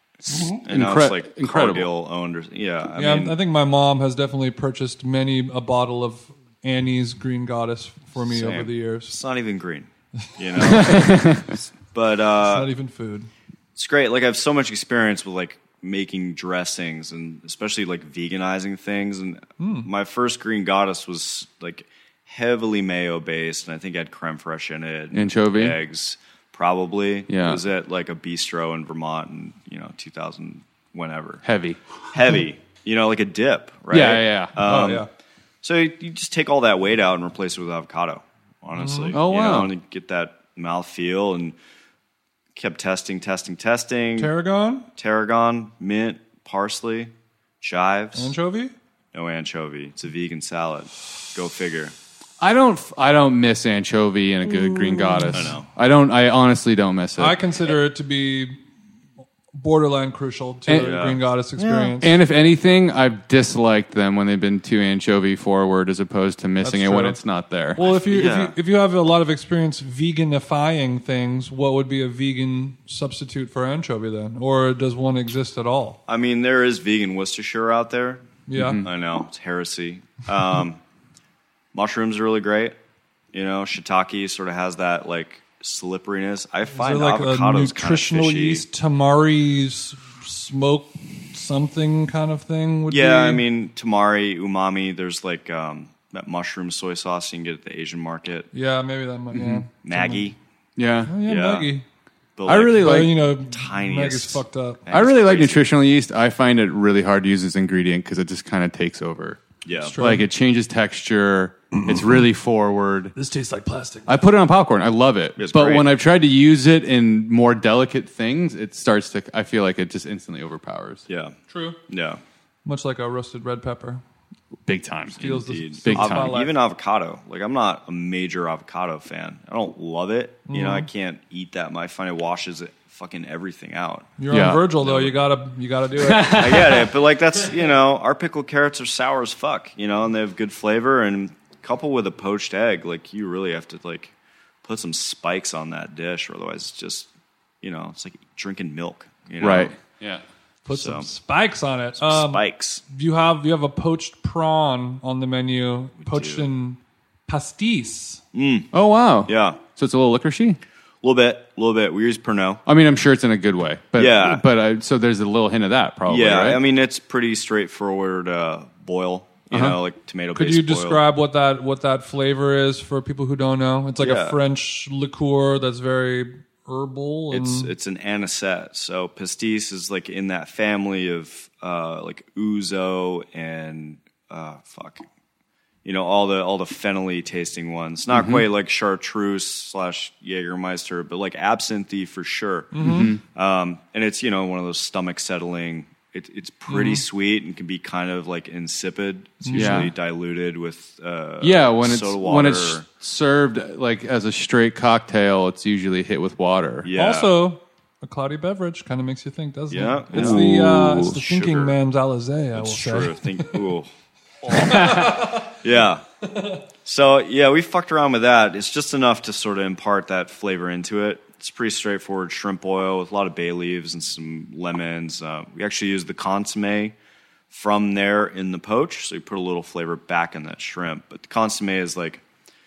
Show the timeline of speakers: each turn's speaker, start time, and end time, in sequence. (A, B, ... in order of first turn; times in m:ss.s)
0:00.2-0:03.4 A
0:00.7-0:01.9 B
0:03.0-0:09.1 C
0:08.2-0:12.7 A
0:10.6-0:11.5 B
0:12.4-0:13.3 C
0:13.7-0:31.4 A
0:19.6-0:19.9 C
0:25.1-0:25.8 B
0:27.3-0:27.6 B
0:31.4-0:31.8 B
0:32.1-0:35.1 A
0:33.9-0:34.6 B
0:34.6-0:35.1 C
0:35.6-0:41.5 A
0:38.8-0:39.2 C
0:39.1-0:39.7 B
0:42.6-0:44.3 A
0:44.2-0:44.9 C
0:45.0-0:48.3 A
0:48.1-0:48.7 C
0:49.1-0:51.9 A
0:52.4-0:57.4 B
0:55.1-0:55.4 C
0:55.3-0:55.7 A
0:57.2-0:58.6 C
0:59.5-1:02.2 C
1:00.7-1:00.9 B
1:00.7-1:01.2 A
1:01.6-1:07.8 B
1:06.6-1:07.2 C
1:07.7-1:16.0 C
1:07.8-1:08.5 A
1:16.1-1:18.3 A
1:18.5-1:18.8 C
1:18.5-1:18.9 B
1:18.8-1:20.8 A
1:21.7-1:22.8 A
1:23.3-1:28.6 A
1:26.7-1:33.4 C
1:32.9-1:38.5 A
1:38.5-1:40.2 C
1:39.3-1:39.6 B
1:39.8-1:40.4 A
1:40.8-1:41.1 B
1:41.1-1:41.8 C
1:41.2-1:41.7 A
1:42.4-1:45.7 A
1:42.4-1:43.2 B
1:42.8-1:44.8 C
1:44.9-1:49.4 B
1:49.6-1:50.0 A
1:49.8-1:50.3 C
1:50.0-1:53.1 B
1:53.1-1:54.1 C
1:54.1-2:01.0 B
1:55.4-1:55.9 A
2:01.1-2:01.4 A
2:01.5-2:01.8 C
2:01.9-2:02.2 A
2:02.6-2:04.0 C
2:04.6-2:06.3 B
2:05.2-2:06.6 C
2:05.2-2:14.1 A
2:10.5-2:10.9 C
2:14.2-2:16.6 C
2:14.3-2:14.6 B
2:14.8-2:15.1 A
2:16.0-2:16.9 B
2:16.3-2:24.1 A
2:24.6-2:27.1 A
2:27.6-2:29.7 A
2:29.4-2:30.2 B
2:30.6-2:38.2 C
2:30.7-2:31.1 A
2:32.0-2:32.8 A
2:36.0-2:36.4 A
2:38.3-2:38.7 A
2:38.7-2:40.6 B
2:39.2-2:39.6 A
2:41.0-2:42.6 A
2:42.6-2:46.6 B
2:44.0-2:44.4 A
2:46.0-2:51.0 A
2:49.5-2:49.8 B
2:50.3-2:57.7 C
2:54.0-2:54.4 A
2:57.3-3:05.0 A
3:05.8-3:22.8 A
3:08.1-3:08.4 B
3:12.7-3:13.1 C
3:12.8-3:13.2 B
3:16.7-3:17.0 C
3:19.4-3:19.9 C
3:19.5-3:19.9 B
3:21.4-3:26.9 B
3:26.8-3:27.3 A
3:26.9-3:33.6 C
3:29.7-3:30.5 A
3:30.1-3:31.1 B
3:31.0-3:31.7 A
3:32.5-3:33.9 A
3:34.5-3:36.0 A
3:34.5-3:35.5 C
3:34.6-3:35.1 B
3:36.3-3:36.6 C
3:36.8-3:47.0 A
3:47.5-3:52.2 A